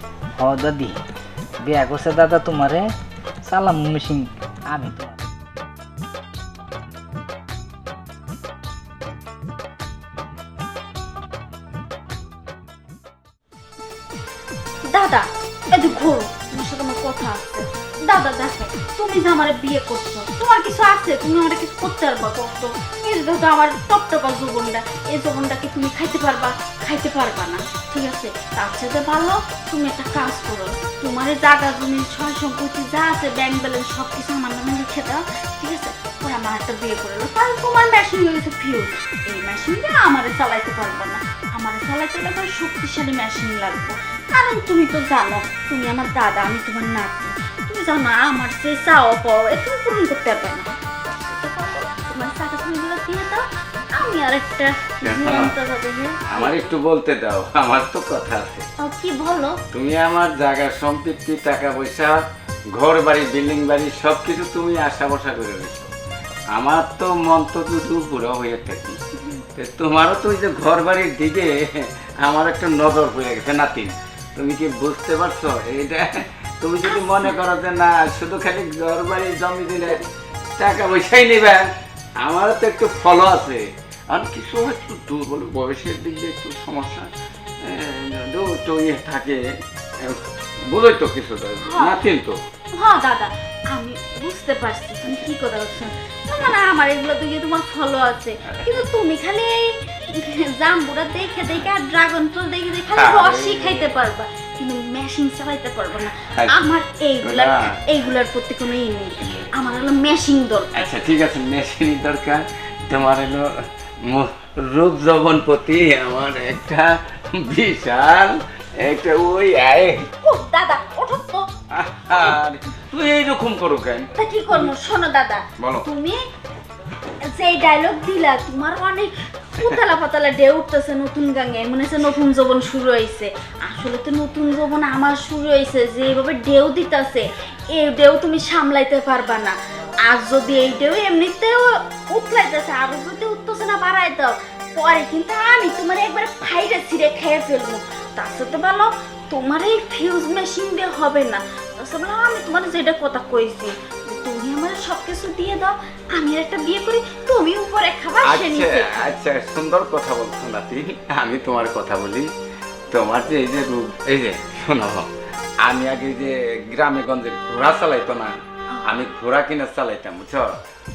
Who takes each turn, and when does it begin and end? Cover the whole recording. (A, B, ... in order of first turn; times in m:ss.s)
0:00.4-0:01.0 A
0:01.6-0:02.8 A
0:03.5-0:05.2 A
0:14.8-0:53.4 B
0:53.9-0:56.7 B
0:55.0-0:55.5 C
0:56.3-0:58.6 C
0:58.8-0:59.6 B
0:59.7-1:02.2 C
1:02.7-1:05.9 C
1:06.5-1:09.0 C
1:09.2-1:09.4 B
1:09.6-1:20.0 C
1:16.8-1:17.4 B
1:20.6-1:21.6 C
1:22.2-1:27.1 C
1:27.6-1:29.4 C
1:30.0-1:32.4 C
1:31.6-1:32.0 B
1:32.7-1:50.9 B
1:38.5-1:38.7 C
1:42.9-1:44.0 C
1:46.2-1:46.6 C
1:47.2-1:47.8 C
1:49.2-1:49.5 C
1:50.8-1:53.5 C
1:54.1-2:00.1 C
2:00.2-2:01.5 B
2:01.7-2:04.7 C
2:02.1-2:02.4 B
2:04.2-2:06.2 B
2:05.6-2:05.8 C
2:07.2-2:39.1 B
2:38.2-2:42.3 C
2:42.9-2:45.1 C
2:45.6-2:48.3 C
2:48.7-2:49.0 B
2:48.9-2:50.5 C